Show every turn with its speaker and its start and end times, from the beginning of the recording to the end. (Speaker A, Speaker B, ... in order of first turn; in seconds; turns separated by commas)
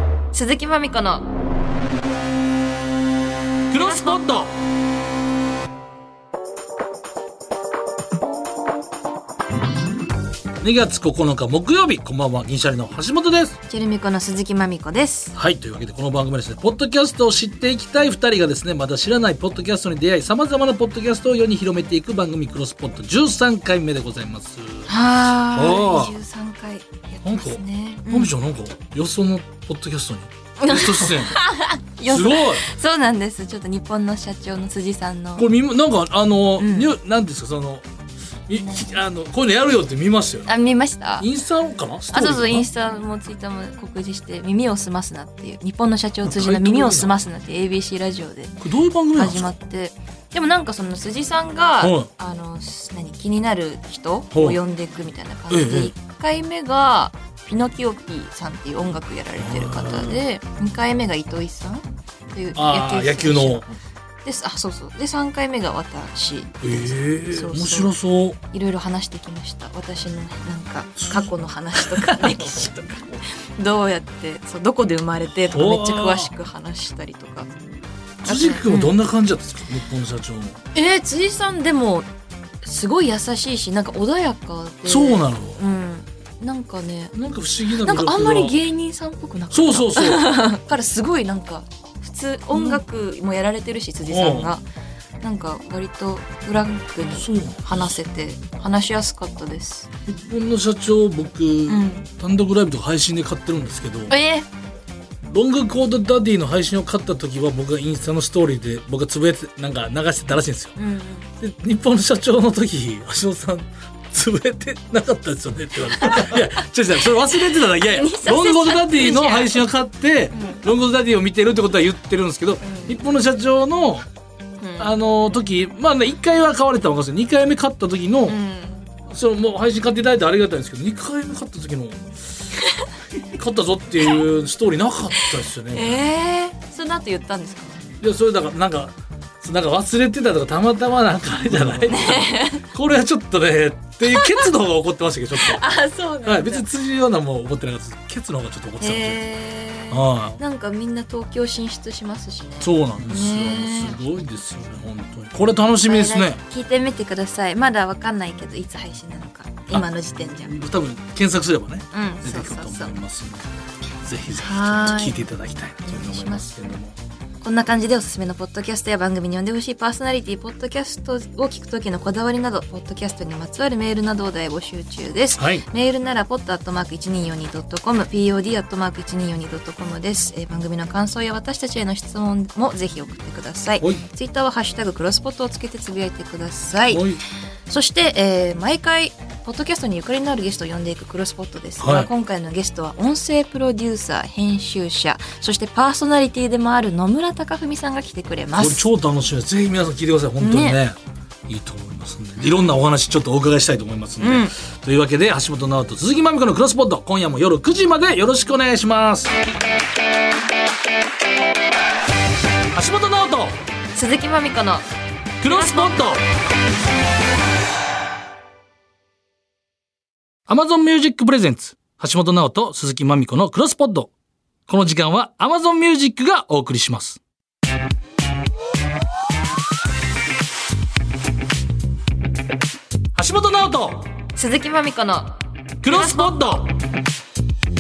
Speaker A: 0.3-1.3, Speaker B: 3.7-4.5, Speaker A: 3.8-4.2, Speaker B: 10.6-13.6, Speaker A: 13.7-15.3, Speaker B: 15.3-24.9, Speaker A: 24.9-28.3, Speaker B: 25.5-26.1, Speaker B: 27.2-31.4, Speaker A: 30.6-35.5, Speaker B: 32.1-32.7, Speaker B: 35.4-37.8, Speaker A: 36.6-36.9, Speaker B: 38.5-40.5, Speaker A: 40.5-41.3, Speaker B: 41.2-42.7, Speaker A: 42.1-63.7, Speaker B: 46.2-47.1, Speaker B: 48.6-49.5, Speaker B: 51.8-52.1, Speaker B: 54.3-54.6, Speaker B: 55.5-55.9, Speaker B: 59.4-60.2, Speaker B: 62.5-63.7, Speaker A: 64.2-67.9, Speaker B: 66.6-68.4, Speaker A: 68.5-77.5, Speaker B: 71.0-72.6, Speaker B: 75.5-76.3, Speaker B: 78.2-80.6, Speaker A: 78.3-79.0, Speaker A: 80.8-82.1, Speaker A: 82.6-87.2, Speaker B: 84.9-85.6, Speaker B: 87.1-88.6, Speaker A: 87.8-94.6, Speaker B: 89.5-90.4, Speaker B: 92.5-92.8, Speaker B: 94.1-94.5, Speaker A: 95.2-99.9, Speaker B: 97.2-97.9, Speaker B: 100.1-104.1, Speaker A: 101.7-102.1, Speaker A: 104.1-104.5, Speaker B: 105.3-110.8, Speaker A: 110.8-111.3, Speaker B: 111.4-124.1, Speaker A: 116.0-116.4, Speaker A: 117.3-119.6, Speaker A: 120.3-120.7, Speaker A: 122.6-123.0, Speaker A: 124.6-124.9, Speaker B: 124.8-128.4, Speaker A: 128.3-128.8, Speaker B: 129.1-132.2, Speaker B: 133.3-136.0, Speaker A: 135.7-137.8, Speaker B: 138.0-145.6, Speaker A: 141.6-142.7, Speaker A: 144.1-144.4, Speaker A: 145.4-146.7, Speaker B: 146.2-149.2, Speaker A: 148.8-154.1, Speaker B: 149.9-150.4, Speaker B: 152.6-156.4, Speaker A: 155.8-160.6, Speaker B: 160.4-163.5, Speaker A: 161.9-162.9, Speaker B: 164.0-167.0, Speaker A: 164.3-165.2, Speaker A: 165.9-166.5, Speaker A: 167.4-187.1, Speaker B: 175.4-175.7, Speaker B: 186.9-187.2, Speaker A: 187.7-198.8, Speaker B: 191.8-192.1, Speaker B: 198.5-209.3, Speaker A: 200.4-200.8, Speaker A: 204.2-204.5, Speaker B: 212.7-213.6, Speaker A: 213.9-214.9, Speaker B: 215.4-216.2, Speaker A: 215.4-216.2, Speaker B: 220.5-224.1, Speaker B: 224.7-227.2, Speaker B: 233.2-234.1, Speaker A: 234.4-236.4, Speaker B: 235.8-236.8